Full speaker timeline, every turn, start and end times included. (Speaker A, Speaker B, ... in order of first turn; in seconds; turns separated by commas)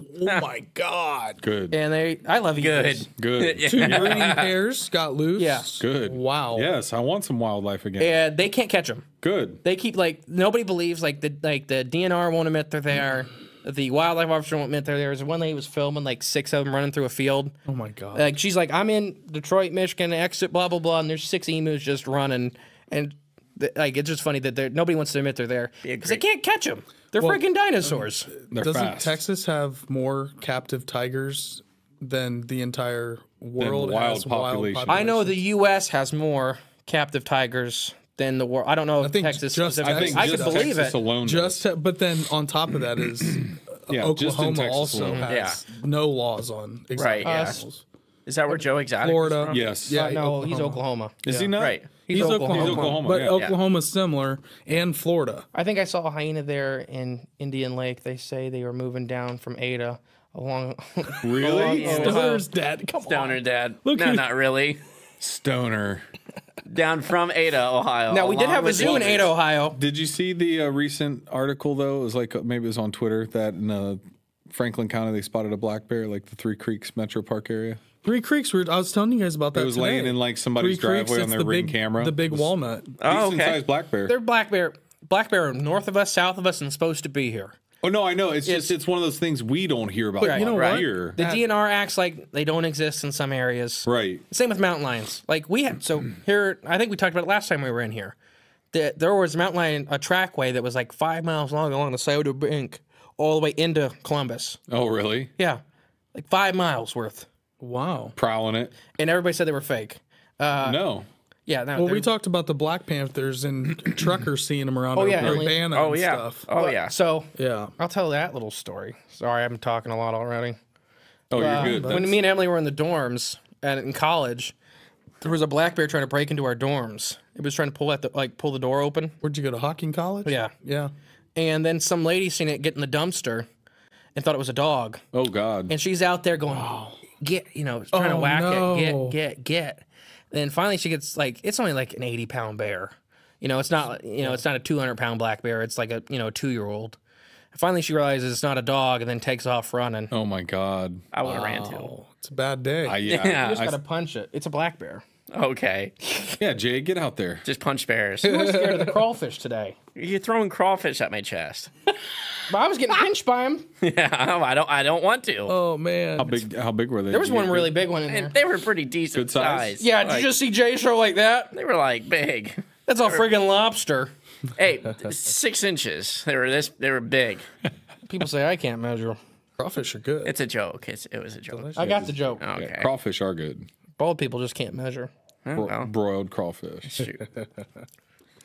Speaker A: 0.1-1.4, Speaker B: 1.4-1.8, Speaker C: 1.7-3.1, Speaker D: 2.6-4.5, Speaker B: 3.2-4.4, Speaker A: 3.6-6.7, Speaker C: 5.4-5.7, Speaker B: 5.8-8.2, Speaker C: 8.0-9.1, Speaker B: 9.2-9.6, Speaker C: 9.6-17.5, Speaker A: 17.6-18.3, Speaker C: 18.1-28.3, Speaker D: 25.8-26.2, Speaker A: 27.2-35.4, Speaker B: 28.5-29.2, Speaker B: 33.6-35.1, Speaker C: 34.9-41.0, Speaker A: 39.0-47.8, Speaker B: 39.8-41.6, Speaker B: 43.2-45.3, Speaker C: 45.0-45.3, Speaker D: 45.3-45.6, Speaker D: 46.9-47.6, Speaker C: 47.2-47.6, Speaker D: 48.2-49.7, Speaker A: 49.0-51.5, Speaker B: 49.5-50.2, Speaker C: 49.9-51.2, Speaker B: 51.2-53.5, Speaker D: 51.6-51.9, Speaker C: 52.0-52.9, Speaker A: 52.1-55.5, Speaker D: 52.6-53.5, Speaker C: 55.5-62.5, Speaker B: 61.2-62.2, Speaker A: 61.4-64.3, Speaker D: 61.8-62.3, Speaker D: 63.0-64.8, Speaker B: 65.2-66.0, Speaker D: 66.7-69.3, Speaker C: 68.1-69.8, Speaker B: 68.8-77.8, Speaker A: 78.0-82.9, Speaker B: 79.5-84.1, Speaker D: 83.0-83.6, Speaker C: 84.1-87.6, Speaker B: 87.8-91.2, Speaker C: 88.5-88.7, Speaker C: 90.2-98.1, Speaker A: 90.2-91.5, Speaker D: 90.5-90.8, Speaker B: 93.8-94.2, Speaker C: 98.7-104.6, Speaker B: 104.7-105.3, Speaker C: 105.4-105.6, Speaker C: 106.1-107.3, Speaker A: 107.6-108.1, Speaker B: 108.2-108.7, Speaker C: 109.0-110.8, Speaker B: 110.6-111.1, Speaker C: 111.5-112.1, Speaker A: 111.8-116.5, Speaker C: 114.9-115.6, Speaker D: 115.7-116.9, Speaker C: 116.5-120.6, Speaker A: 117.3-117.7, Speaker B: 121.3-122.2, Speaker C: 121.3-124.5, Speaker A: 121.3-122.1, Speaker C: 125.2-129.2, Speaker A: 129.2-130.9, Speaker C: 130.2-130.5, Speaker C: 131.3-133.5, Speaker C: 134.1-135.0, Speaker B: 135.1-135.7, Speaker C: 135.7-147.0, Speaker A: 136.5-137.0, Speaker A: 137.9-139.2, Speaker C: 147.5-150.1, Speaker B: 150.1-151.0, Speaker D: 151.1-151.9, Speaker A: 151.2-153.0, Speaker B: 152.8-153.8, Speaker D: 153.1-153.6, Speaker C: 153.1-155.0, Speaker D: 155.3-155.9, Speaker B: 156.4-157.4, Speaker D: 157.4-158.4, Speaker A: 158.2-159.0, Speaker C: 158.2-159.8, Speaker D: 159.9-161.7, Speaker C: 162.5-163.7, Speaker D: 163.8-165.6, Speaker A: 165.5-166.4, Speaker B: 166.2-167.7, Speaker C: 167.1-168.3, Speaker D: 168.1-170.3, Speaker B: 169.1-169.8, Speaker C: 169.8-171.5, Speaker D: 171.5-173.2, Speaker C: 172.8-174.1, Speaker D: 174.6-177.5, Speaker C: 178.1-179.2, Speaker A: 179.6-180.3, Speaker D: 180.2-182.9, Speaker A: 181.5-182.1, Speaker C: 181.8-182.4, Speaker B: 181.8-183.7, Speaker C: 184.0-185.1, Speaker D: 185.4-185.9, Speaker B: 185.5-187.1, Speaker D: 186.9-187.2